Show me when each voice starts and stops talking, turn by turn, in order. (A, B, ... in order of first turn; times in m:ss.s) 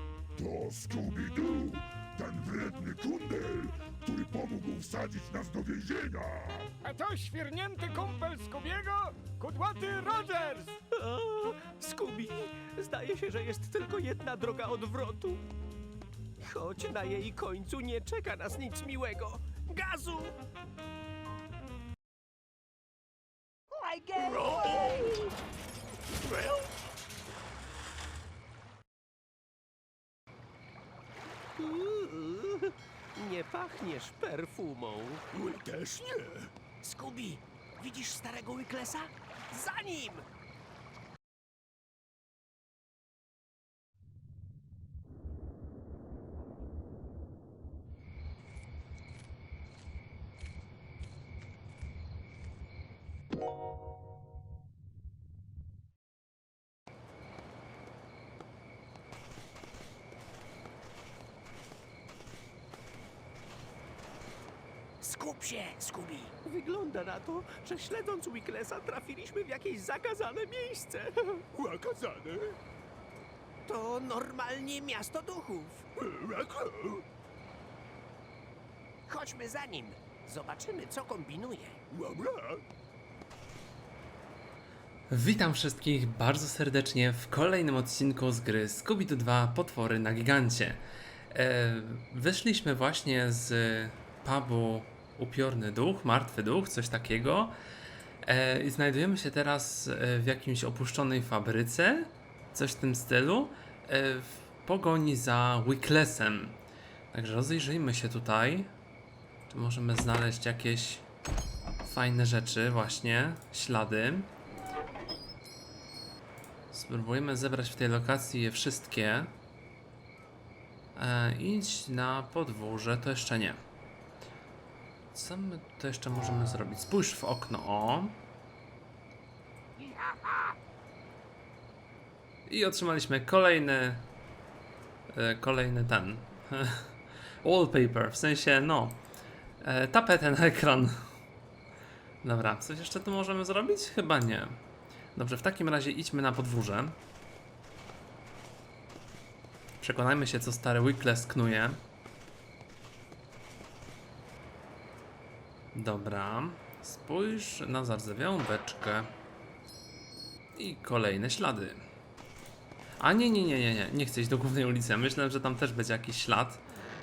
0:00.4-0:06.7 A
0:06.8-0:10.8 B
0:10.9-0:15.4 C
0:16.4-0:20.4 C
0:24.2-0:25.3 C
0:31.6-0:35.2 C
0:35.3-0:36.5 A
0:36.8-0:40.3 C
1:05.0-1:11.4 C
1:11.5-1:12.6 A
1:13.7-1:15.9 C
1:16.0-1:17.0 A
1:19.1-1:21.8 C
1:21.9-1:22.6 A
1:25.1-1:37.6 D
1:38.2-1:46.6 D
1:47.1-1:48.7 D
1:49.5-1:51.1 D
1:51.8-1:54.3 D
1:56.7-1:59.4 D
2:01.0-2:03.6 D
2:05.1-2:08.2 D
2:12.5-2:14.1 D
2:15.1-2:19.0 D
2:19.6-2:21.0 D
2:22.2-2:24.6 D
2:25.2-2:27.0 D
2:29.8-2:31.8 D
2:35.7-2:39.1 D
2:40.6-2:41.8 D
2:43.0-2:46.6 D